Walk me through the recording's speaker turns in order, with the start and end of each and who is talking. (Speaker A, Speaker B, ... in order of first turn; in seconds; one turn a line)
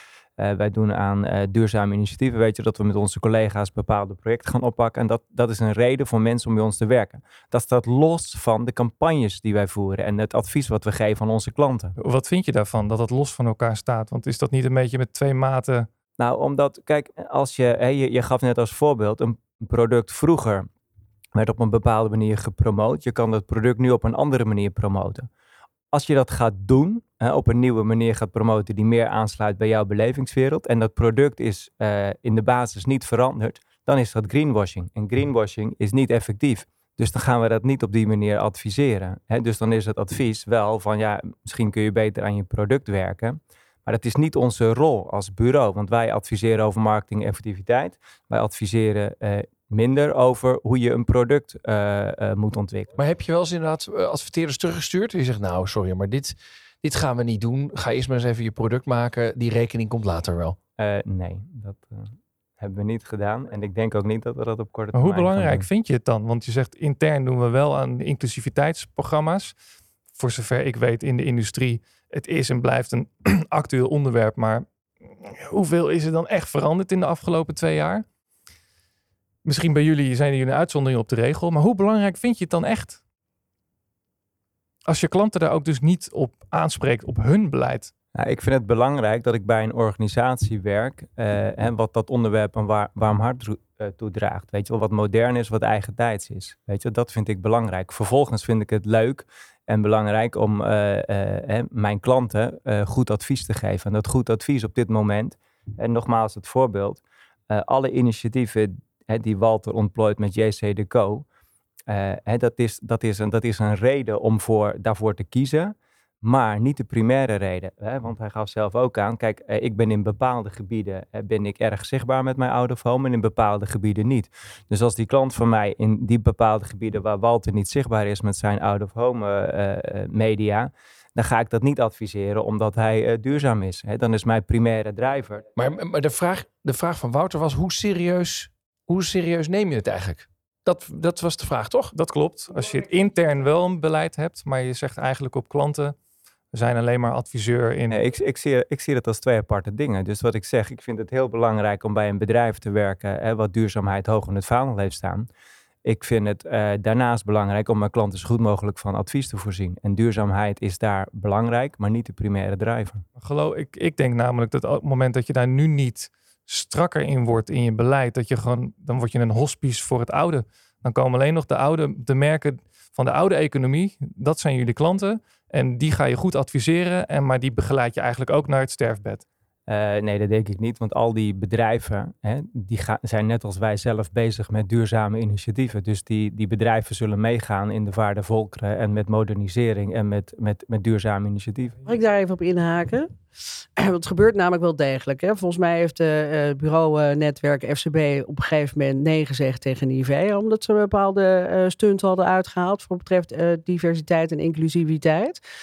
Speaker A: 0.4-11.9
Speaker B: 12.0-15.9
Speaker A: 16.2-20.7
Speaker A: 21.3-25.3
Speaker A: 25.9-53.0
Speaker C: 53.0-60.6
Speaker A: 60.8-65.7
Speaker B: 64.9-69.5
Speaker B: 70.1-78.0
Speaker B: 79.5-83.0
Speaker B: 84.9-87.9
Speaker A: 88.2-111.3
Speaker A: 111.9-135.4
Speaker C: 135.6-141.9
Speaker B: 141.9-146.0
Speaker B: 146.5-148.0
Speaker A: 147.9-155.3
Speaker A: 155.8-163.1
Speaker B: 163.2-179.2
Speaker A: 179.7-191.8
Speaker D: 191.9-193.1
Speaker D: 193.8-205.4